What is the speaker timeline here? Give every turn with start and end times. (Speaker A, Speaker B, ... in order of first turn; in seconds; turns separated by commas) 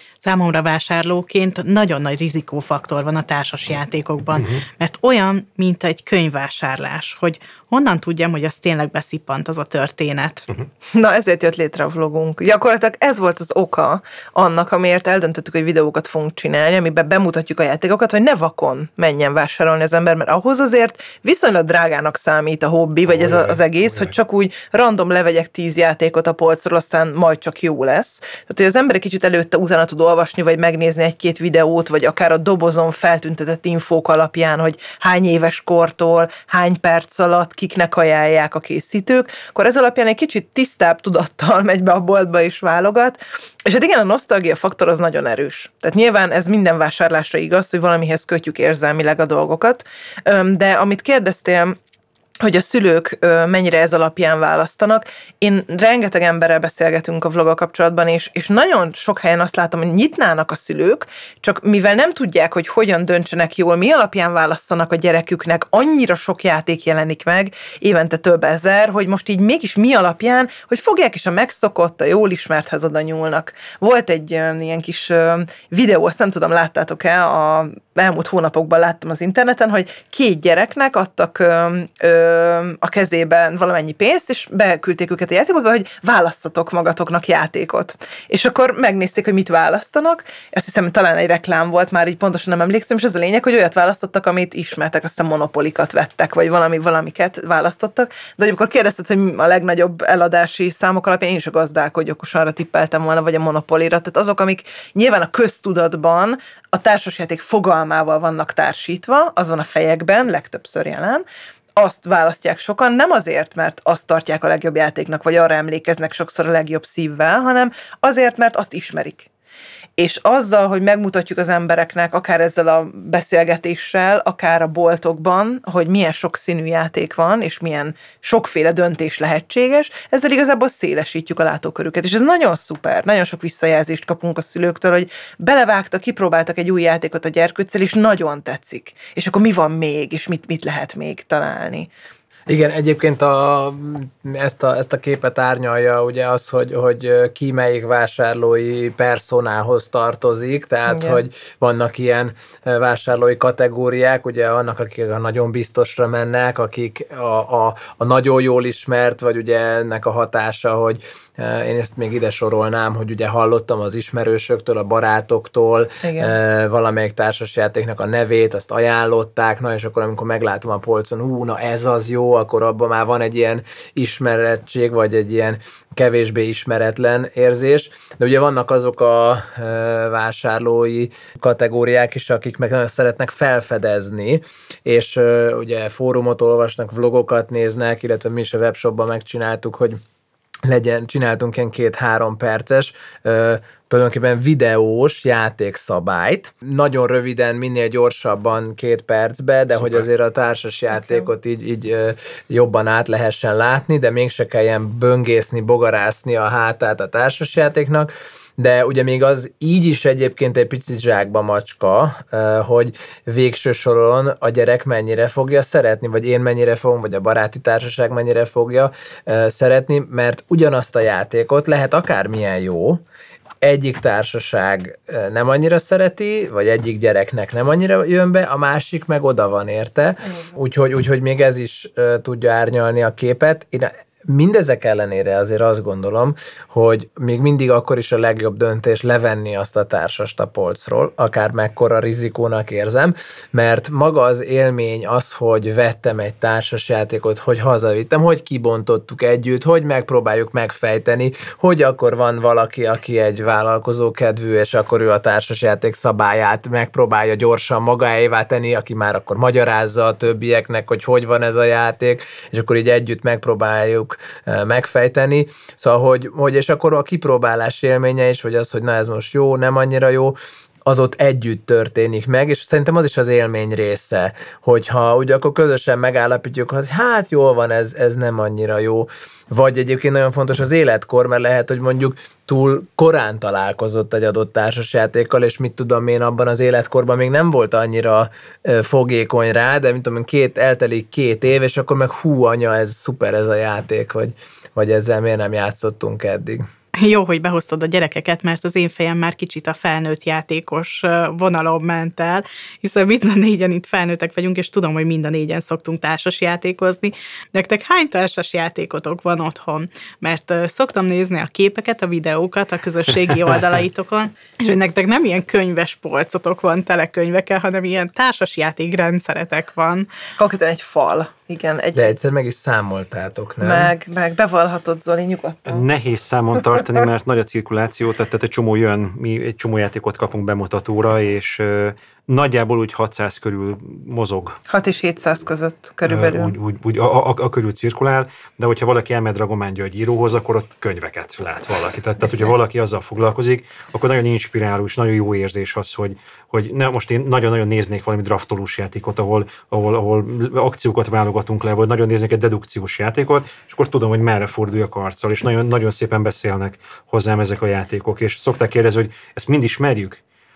Speaker A: 0.2-10.5, Speaker B: 10.9-51.8, Speaker C: 23.0-24.1, Speaker B: 52.4-111.2, Speaker B: 111.8-119.3, Speaker B: 120.0-141.9, Speaker D: 142.5-190.0, Speaker B: 150.9-151.2, Speaker B: 166.0-166.3, Speaker D: 190.7-223.0, Speaker C: 199.7-200.1, Speaker D: 223.6-296.6, Speaker A: 296.9-320.1, Speaker B: 320.4-322.1, Speaker D: 321.9-323.9, Speaker B: 323.6-325.8, Speaker C: 325.7-334.6, Speaker B: 334.7-336.5, Speaker C: 336.1-360.2